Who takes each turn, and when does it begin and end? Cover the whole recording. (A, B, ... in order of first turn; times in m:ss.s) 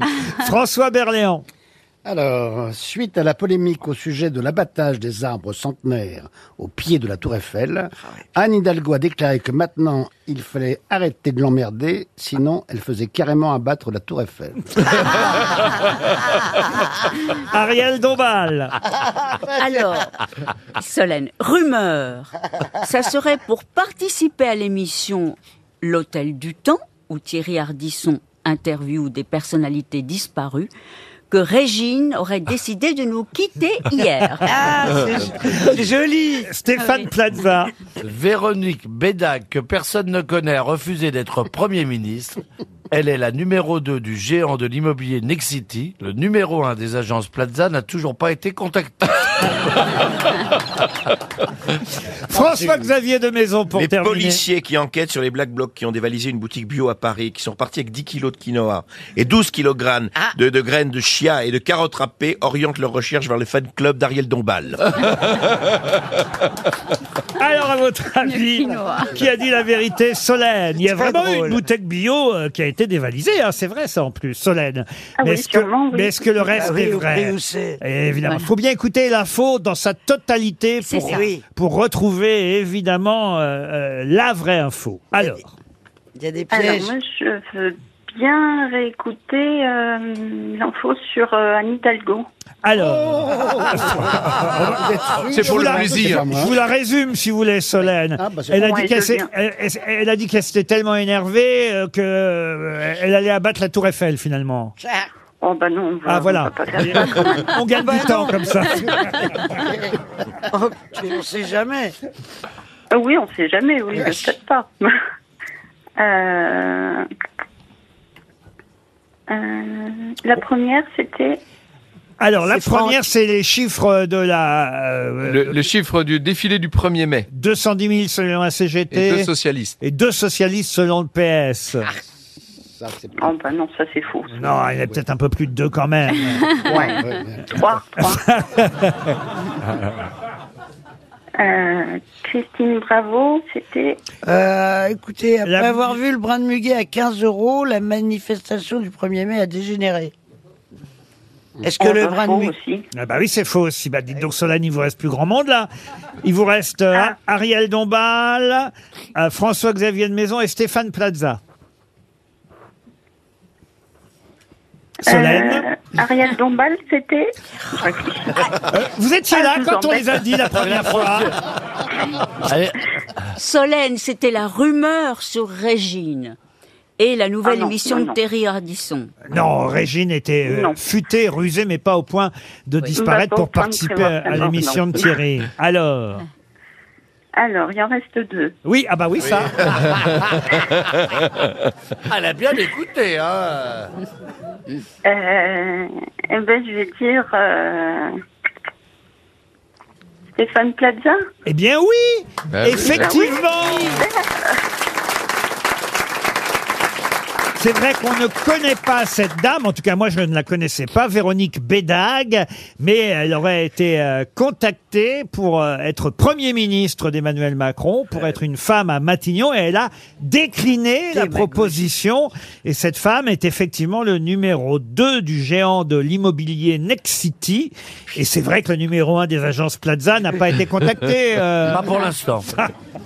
0:00.2-0:01.4 A
0:02.0-0:14.8 B
0:17.4-0:18.8 A
0:19.5-0:30.7 C
0:31.3-0:34.6 C
0:34.4-0:36.5 D
0:36.5-0:37.7 A
0:36.8-0:37.1 C
0:38.0-0:49.6 E
0:52.3-0:54.4 A
0:52.4-0:52.7 B
0:53.8-1:04.8 F
1:07.4-1:25.5 A
1:08.2-1:09.1 C
1:10.9-1:11.6 D
1:15.2-1:16.5 G
1:16.5-1:17.8 D
1:20.8-1:21.3 C
1:21.1-1:21.4 D
1:26.2-1:26.9 D
1:26.5-1:32.3 G
1:32.6-1:44.8 A
1:34.3-1:36.5 B
1:35.2-1:36.3 H
1:38.2-1:38.7 B
1:38.6-1:39.3 G
1:44.8-1:45.1 D
1:45.4-1:48.3 G
1:46.1-1:49.4 A
1:50.5-1:52.0 D
1:52.9-1:54.9 G
1:54.0-1:54.3 D
1:56.0-1:57.1 G
1:59.3-2:01.4 G
2:02.2-2:05.6 A
2:02.5-2:03.0 D
2:05.3-2:07.3 H
2:07.3-2:09.3 A
2:08.9-2:09.8 H
2:09.8-2:11.9 A
2:12.8-2:13.3 B
2:13.2-2:14.4 G
2:14.3-2:16.6 A
2:16.5-2:17.5 B
2:16.7-2:18.3 G
2:18.0-2:19.1 A
2:21.4-2:24.0 G
2:24.2-2:30.1 D
2:25.4-2:25.9 A
2:31.6-2:32.5 D
2:31.8-2:32.8 G
2:32.9-2:35.7 A
2:36.2-2:41.4 A
2:45.0-2:45.7 A
2:45.0-2:48.5 G
2:48.7-2:51.3 A
2:49.3-2:50.2 G
2:50.6-2:51.3 E
2:52.2-2:52.7 E
2:53.3-2:56.4 C
2:57.0-2:59.1 C
2:57.4-2:58.2 G
2:59.3-3:06.2 A
3:00.4-3:00.8 G
3:03.0-3:04.9 G
3:07.4-3:08.5 G
3:08.6-3:09.7 A
3:09.6-3:10.5 E
3:12.1-3:13.9 E
3:15.0-3:18.1 G
3:20.4-3:21.2 G
3:21.5-3:24.0 A
3:22.5-3:23.1 H
3:22.9-3:24.6 G
3:27.6-3:51.9 A
3:41.1-3:41.8 D
3:51.6-3:52.5 E